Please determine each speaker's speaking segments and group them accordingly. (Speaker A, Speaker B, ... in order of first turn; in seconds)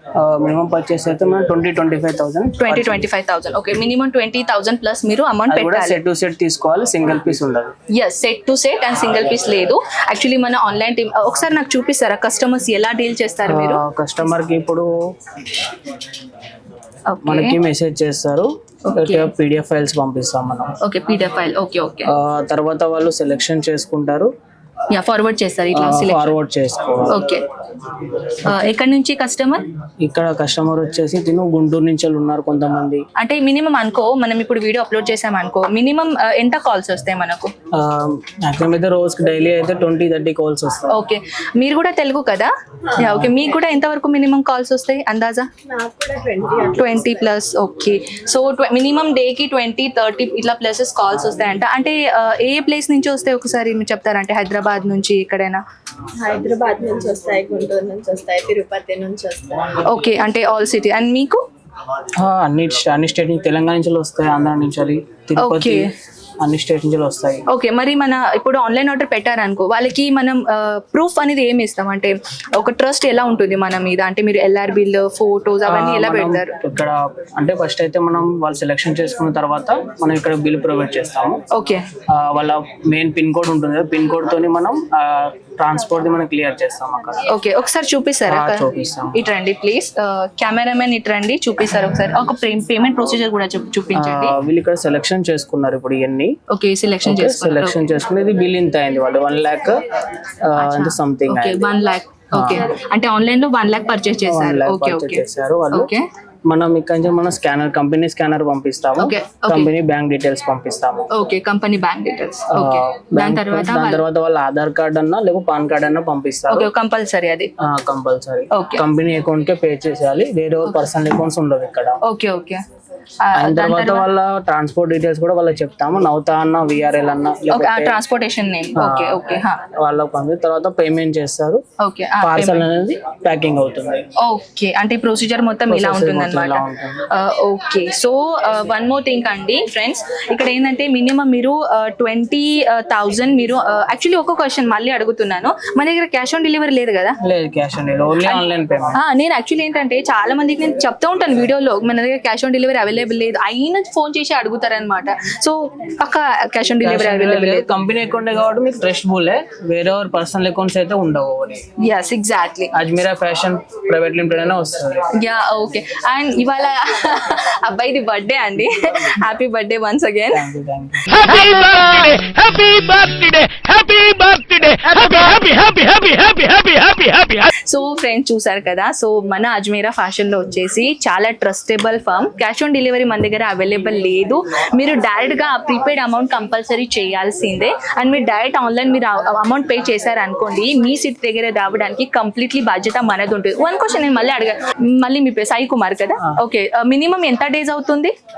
Speaker A: 0.2-3.1, 5.5-7.7, 13.5-14.9, 17.2-20.7, 22.1-24.3, 25.7-27.2, 28.5-28.7, 30.0-33.0, 37.7-41.0, 43.0-43.3, 62.2-65.9, 66.4-67.4, 75.7-81.4, 82.1-87.3, 88.3-89.2, 93.9-96.3, 97.0-99.8, 100.4-101.7, 102.3-102.6, 104.2-105.9, 106.5-111.1, 112.5-116.7, 117.6-122.0, 123.3-128.0, 128.8-131.6, 132.2-134.0, 135.7-137.0, 147.2-149.0, 156.8-161.6, 162.7-165.1, 170.3-171.2
Speaker B: 2.6-6.0, 7.9-13.8, 17.1-17.6, 18.9-19.3, 20.8-22.1, 24.9-26.4, 27.1-27.5, 28.4-29.7, 33.2-37.5, 40.9-45.5, 46.7-55.6, 59.8-61.4, 65.4-65.9, 67.5-76.6, 81.5-81.8, 87.3-94.4, 96.5-97.8, 100.6-106.0, 109.0-109.7, 111.1-114.0, 116.5-117.5, 118.5-118.8, 122.0-122.6, 123.2-124.1, 127.5-129.6, 131.8-132.7, 134.2-147.2, 149.0-157.8, 161.8-162.7, 165.1-170.5, 171.2-172.2, 175.0-175.5, 177.4-198.1
Speaker C: 45.7-46.9, 56.2-59.6
Speaker D: 171.2-177.4